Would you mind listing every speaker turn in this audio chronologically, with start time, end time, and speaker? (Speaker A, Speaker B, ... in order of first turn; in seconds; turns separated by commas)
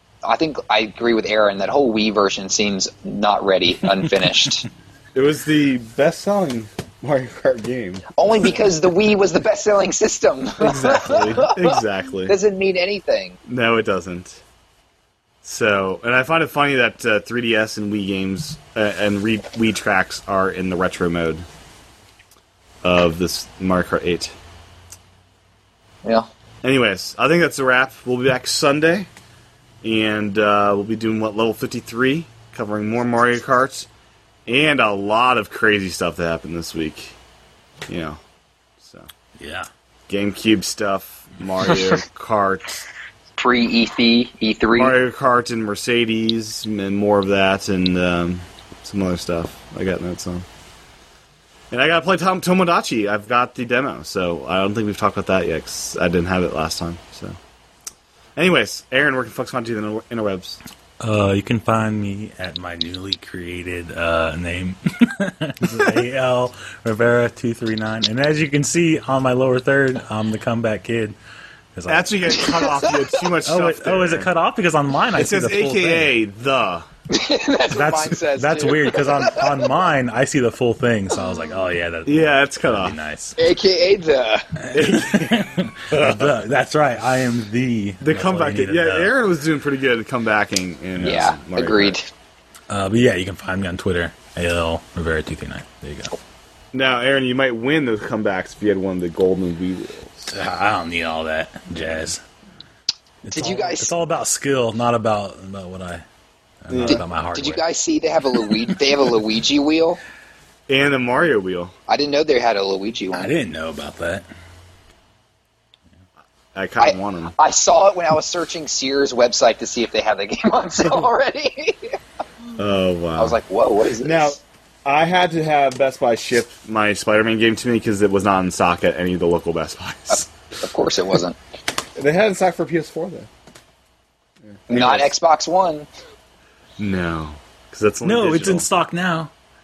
Speaker A: 0.2-4.7, Speaker B: 5.1-8.0, Speaker A: 8.2-13.4, Speaker B: 10.6-12.3, Speaker B: 13.4-14.4, Speaker B: 15.4-21.4, Speaker B: 22.8-24.3, Speaker B: 26.6-29.1, Speaker B: 29.8-33.9, Speaker B: 34.5-37.1, Speaker B: 37.9-38.2, Speaker B: 38.8-39.1, Speaker C: 39.4-39.7, Speaker B: 40.1-42.8, Speaker A: 43.4-45.0, Speaker B: 44.7-50.5, Speaker B: 51.7-57.4, Speaker B: 58.4-60.6, Speaker C: 61.0-71.2, Speaker C: 71.8-72.4, Speaker B: 71.9-74.3, Speaker A: 72.6-72.9, Speaker C: 73.4-76.1, Speaker B: 75.1-76.9, Speaker A: 77.1-79.8, Speaker C: 77.7-83.4, Speaker B: 82.0-83.0, Speaker A: 83.4-84.5, Speaker C: 84.6-89.1, Speaker B: 84.7-85.4, Speaker B: 85.9-86.3, Speaker B: 88.0-92.0, Speaker A: 91.0-92.0, Speaker C: 92.7-96.1, Speaker B: 96.7-100.2, Speaker C: 100.3-102.2, Speaker C: 103.2-106.0, Speaker A: 103.3-103.9, Speaker C: 106.6-107.7, Speaker B: 106.7-107.0, Speaker A: 106.8-110.0, Speaker B: 110.7-111.7, Speaker A: 111.9-113.3, Speaker C: 113.2-114.2, Speaker B: 116.5-117.3, Speaker A: 116.8-122.0, Speaker B: 122.5-123.3, Speaker A: 123.2-124.4, Speaker B: 124.0-130.3, Speaker A: 130.1-131.4, Speaker B: 132.0-133.3, Speaker B: 134.6-135.1, Speaker A: 134.7-135.9, Speaker B: 136.8-138.7, Speaker C: 138.0-139.3